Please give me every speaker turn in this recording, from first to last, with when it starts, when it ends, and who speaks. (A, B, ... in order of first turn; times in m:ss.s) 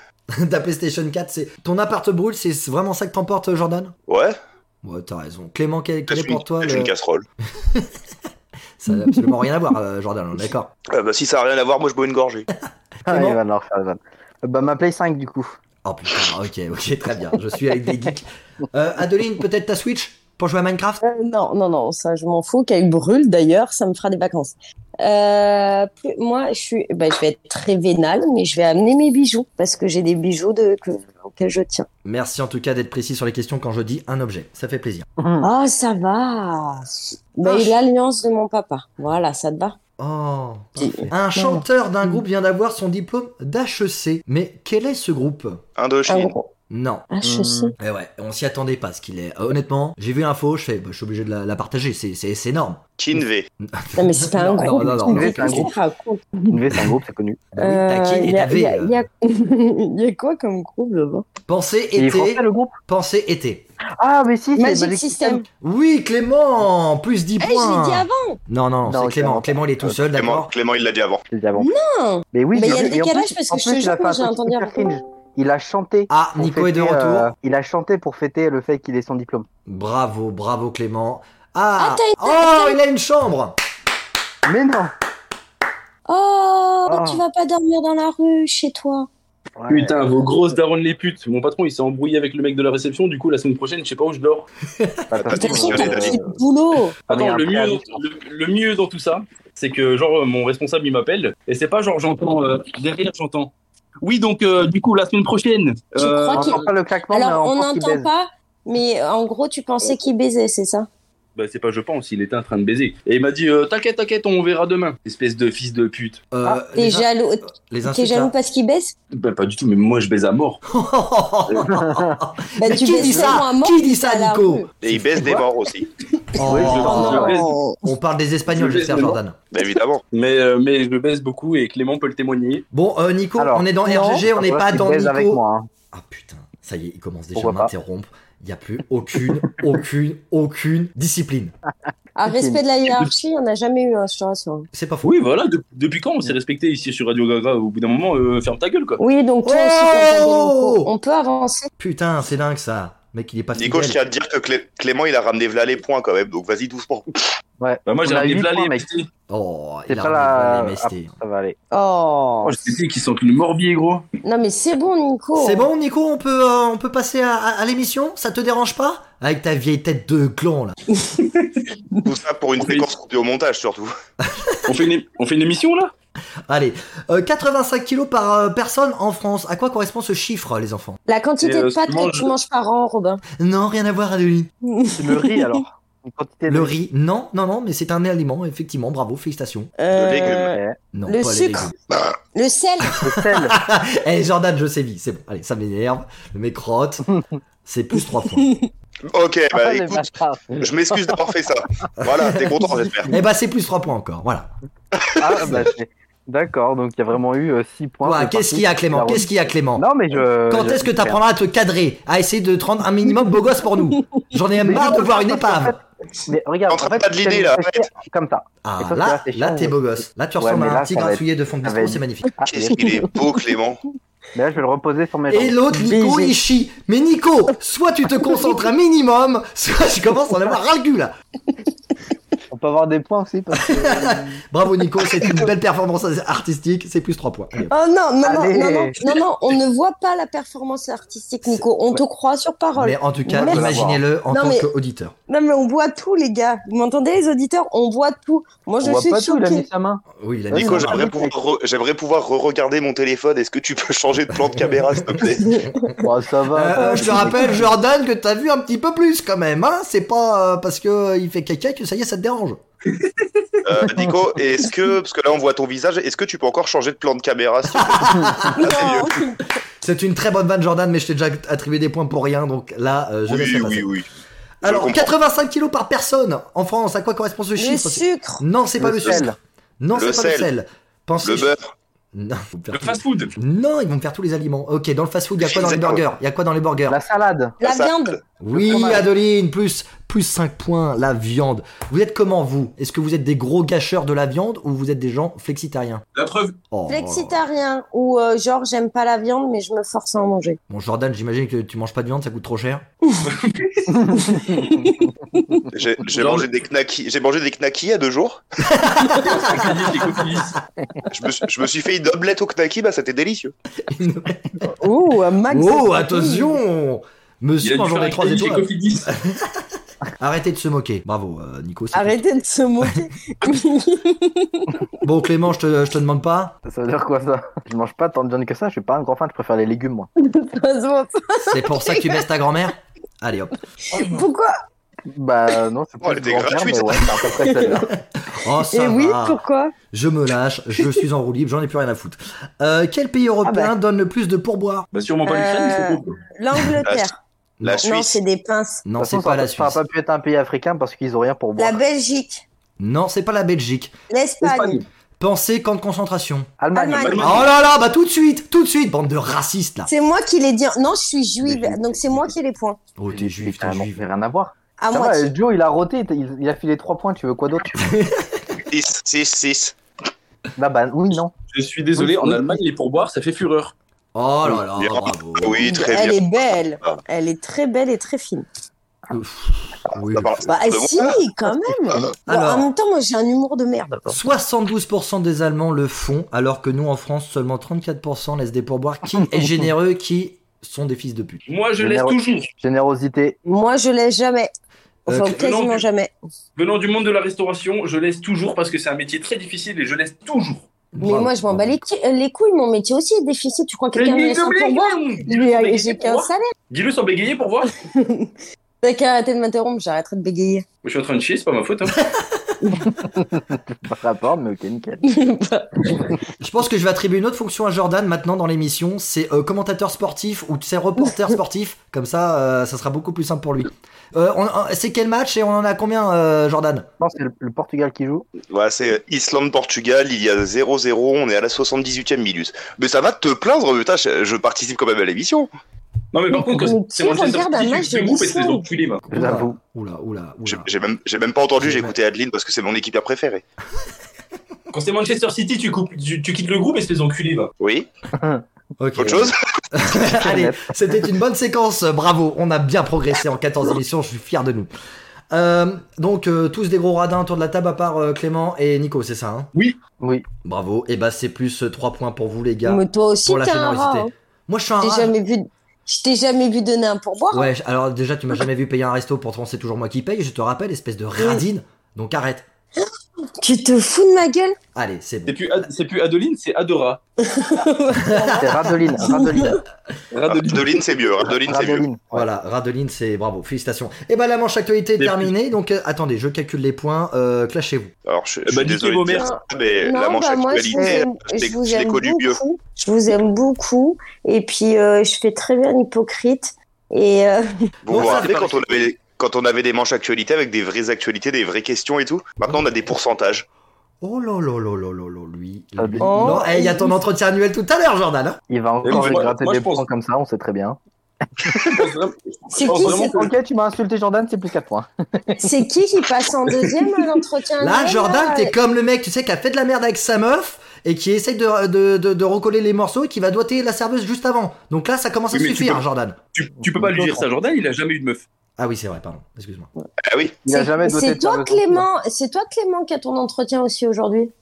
0:00.3-0:03.9 A
0:04.1-0:04.4 B
0:04.8-0:06.9 A
0:06.1-0:07.2 B
0:07.6-0:07.9 A
0:08.8-0:10.7 A
0:10.9-0:12.5 B
0:13.0-0:13.4 A
0:13.1-0:15.6 C
0:15.8-0:21.0 A
0:21.0-0:31.9 D
0:32.0-0:35.1 A
0:35.2-0:35.5 C
0:35.4-0:39.8 D
0:37.4-0:37.8 A
0:40.0-0:45.6 A
0:40.8-0:42.1 D
0:45.8-0:46.3 B
0:46.1-0:46.5 D
0:46.7-0:47.1 A
0:47.1-0:47.7 D
0:47.2-0:47.7 C
0:47.8-0:52.8 A
0:53.0-0:53.5 B
0:53.6-0:55.7 A
0:54.0-0:56.5 D
0:55.1-0:55.7 C
0:56.5-0:57.4 C
0:57.6-0:59.0 A
0:57.6-1:01.2 D
1:01.5-1:03.6 A
1:02.0-1:02.8 C
1:04.0-1:05.4 C
1:04.6-1:05.4 D
1:05.6-1:10.5 A
1:07.4-1:08.4 D
1:08.8-1:10.0 C
1:10.1-1:11.2 B
1:11.3-1:11.7 C
1:11.6-1:14.9 D
1:12.3-1:19.5 C
1:16.1-1:17.3 A
1:19.7-1:23.6 A
1:21.8-1:22.8 D
1:24.5-1:24.9 C
1:26.1-1:29.1 D
1:26.9-1:27.2 C
1:29.6-1:30.0 C
1:29.7-1:34.5 E
1:34.8-1:35.1 A
1:35.1-1:36.4 C
1:35.2-1:36.2 B
1:35.3-1:37.0 D
1:37.1-1:43.5 E
1:37.1-1:37.9 C
1:44.0-1:46.7 E
1:46.0-1:50.9 D
1:46.3-1:48.1 C
1:51.4-1:56.2 E
1:56.3-1:57.1 A
1:56.4-1:58.9 D
1:57.7-1:58.3 A
1:59.1-2:00.6 E
2:00.7-2:05.0 A
2:01.7-2:02.1 C
2:02.6-2:04.7 D
2:02.9-2:03.4 C
2:04.8-2:05.9 B
2:05.2-2:05.5 C
2:06.4-2:09.4 A
2:06.4-2:07.3 C
2:06.5-2:07.6 E
2:06.7-2:07.8 D
2:08.5-2:09.2 E
2:09.5-2:10.0 B
2:10.1-2:12.6 E
2:12.7-2:21.5 A
2:13.4-2:15.7 C
2:13.9-2:14.2 D
2:17.4-2:17.7 C
2:22.2-2:24.7 D
2:22.3-2:22.6 C
2:24.7-2:25.1 A
2:25.0-2:29.0 E
2:29.0-2:31.7 D
2:29.4-2:30.9 A
2:31.8-2:34.0 A
2:33.6-2:37.3 B
2:37.6-2:38.8 C
2:37.9-2:39.1 E
2:39.3-2:41.1 A
2:39.9-2:41.6 C
2:41.7-2:42.6 D
2:42.4-2:44.1 E
2:44.2-2:45.7 D
2:45.4-2:50.8 A
2:52.0-2:53.9 B
2:52.6-2:52.9 E
2:54.2-2:54.8 A
2:54.6-2:55.9 E
2:56.5-3:01.0 A
3:01.1-3:03.2 D
3:01.4-3:02.3 E
3:03.4-3:04.5 A
3:04.6-3:05.6 D
3:05.0-3:06.8 C
3:06.5-3:09.7 A
3:09.8-3:11.7 D
3:09.9-3:10.6 B
3:10.3-3:10.8 C
3:10.9-3:11.7 A
3:12.3-3:13.0 D
3:13.0-3:13.6 C
3:13.0-3:17.1 A
3:17.6-3:18.5 A
3:18.4-3:18.7 D
3:19.1-3:20.1 B
3:19.6-3:21.2 C
3:20.6-3:23.2 B
3:23.1-3:24.5 A
3:25.0-3:25.5 B
3:25.2-3:31.2 C
3:28.0-3:29.9 A
3:30.5-3:35.8 A
3:34.6-3:39.8 C
3:36.7-3:37.9 B
3:38.6-3:42.4 A
3:40.4-3:43.0 C
3:42.5-3:43.8 B
3:44.4-3:45.6 C
3:45.3-3:51.1 A
3:45.8-3:46.4 D
3:52.5-3:54.4 C
3:53.7-3:57.7 A
3:57.7-4:04.7 D
3:58.2-3:59.0 C
4:02.8-4:05.1 A
4:03.4-4:04.0 C
4:05.3-4:09.7 D
4:08.8-4:11.4 C
4:10.2-4:11.1 A
4:10.6-4:15.6 B
4:15.1-4:16.0 A
4:15.4-4:16.0 D
4:16.0-4:17.7 C
4:16.5-4:22.6 A
4:23.6-4:29.2 B
4:27.8-4:28.8 A
4:28.6-4:29.4 D
4:29.8-4:33.9 A
4:33.3-4:34.1 B
4:34.6-4:35.1 B
4:34.6-4:41.5 A
4:37.6-4:38.4 D
4:38.8-4:39.4 C
4:40.0-4:40.5 B
4:41.2-4:41.6 B
4:42.1-4:47.0 A
4:42.7-4:43.3 E
4:45.4-4:46.0 B
4:46.9-4:47.6 C
4:47.6-4:48.2 D
4:47.6-4:48.2 B
4:48.4-4:56.0 A
4:48.5-4:49.0 C
4:56.2-4:56.6 E
4:56.7-4:57.4 A
4:56.9-5:00.6 D
5:00.7-5:02.8 A
5:03.2-5:04.0 E
5:04.0-5:04.9 C
5:04.1-5:05.7 D
5:05.7-5:08.4 B
5:06.1-5:06.5 E
5:08.6-5:09.8 A
5:08.8-5:09.5 D
5:09.2-5:10.6 E
5:11.1-5:13.5 B
5:13.9-5:14.7 A
5:14.6-5:16.6 D
5:15.5-5:22.2 A
5:17.6-5:19.1 E
5:21.9-5:24.8 D
5:25.0-5:26.6 A
5:26.7-5:30.1 C
5:30.2-5:32.3 D
5:31.5-5:33.6 A
5:33.9-5:34.6 D
5:35.1-5:37.9 C
5:36.0-5:37.3 B
5:37.4-5:37.8 D
5:38.2-5:39.4 A
5:38.7-5:39.7 D
5:39.9-5:44.9 A
5:43.4-5:43.7 D
5:44.9-5:46.2 E
5:45.2-5:47.2 D
5:47.6-5:47.9 A
5:47.6-5:48.2 B
5:47.8-5:48.8 D
5:48.8-5:49.8 A
5:49.0-5:51.8 C
5:51.6-5:52.4 D
5:52.8-5:53.9 A
5:54.1-5:54.8 D
5:54.4-5:54.8 E
5:55.2-5:56.5 A
5:56.6-5:57.4 C
5:56.7-5:57.5 D
5:57.0-5:57.5 E
5:57.2-5:59.9 A
5:59.9-6:02.8 D
6:01.4-6:02.2 C
6:03.0-6:04.0 A
6:03.1-6:07.8 C
6:04.8-6:05.3 D
6:07.8-6:08.4 A
6:08.7-6:09.8 B
6:10.6-6:11.3 C
6:11.5-6:13.7 E
6:12.0-6:12.6 C
6:14.2-6:15.7 A
6:14.8-6:16.2 B
6:15.6-6:18.5 D
6:19.1-6:20.4 A
6:20.1-6:21.2 B
6:20.5-6:24.2 D
6:22.3-6:22.7 A
6:24.1-6:31.4 A
6:31.5-6:32.5 E
6:31.8-6:33.4 C
6:33.5-6:34.5 D
6:35.1-6:36.1 D
6:35.1-6:35.3 A
6:35.2-6:35.8 E
6:36.6-6:40.7 E
6:40.9-6:41.8 A
6:41.0-6:46.5 D
6:43.9-6:47.7 E
6:47.8-6:50.6 D
6:50.8-6:52.0 E
6:52.6-6:52.9 D
6:52.8-6:55.0 C
6:55.0-6:56.1 D
6:56.4-7:06.9 A
7:07.0-7:08.3 C
7:08.4-7:15.5 B
7:16.1-7:19.0 E
7:16.3-7:18.7 D
7:19.1-7:20.7 A
7:19.1-7:19.6 C
7:20.5-7:23.4 B
7:21.6-7:21.9 A
7:24.7-7:27.5 E
7:27.6-7:27.9 B
7:28.2-7:28.4 C
7:28.8-7:34.7 A
7:29.0-7:29.4 B
7:30.0-7:30.7 C
7:35.3-7:39.5 A
7:40.0-7:40.3 C
7:40.4-7:45.1 A
7:42.7-7:44.1 D
7:44.8-7:47.5 D
7:47.3-7:52.4 A
7:51.2-7:51.4 D
7:53.4-7:54.6 D
7:54.8-7:55.4 A
7:55.3-7:57.0 E
7:57.2-7:59.6 D
7:58.0-7:58.6 A
7:58.4-7:59.6 C
8:00.1-8:00.8 E
8:00.3-8:01.9 B
8:01.5-8:02.3 C
8:02.1-8:07.9 A
8:05.0-8:05.3 E
8:08.0-8:12.4 B
8:08.5-8:09.3 E
8:09.1-8:17.6 D
8:17.8-8:23.5 B
8:17.9-8:18.4 A
8:17.9-8:18.8 E
8:24.0-8:28.4 A
8:25.8-8:26.5 C
8:26.0-8:26.9 D
8:28.5-8:30.8 C
8:28.8-8:29.9 E
8:31.4-8:31.9 C
8:31.4-8:33.3 E
8:32.5-8:33.2 D
8:32.8-8:35.5 C
8:35.4-8:38.5 D
8:36.5-8:37.0 E
8:37.6-8:46.2 A
8:45.3-8:45.8 E
8:46.4-8:48.2 E
8:46.7-8:47.2 C
8:48.6-8:49.7 A
8:50.0-8:50.4 B
8:50.4-8:51.9 C
8:50.5-8:54.3 D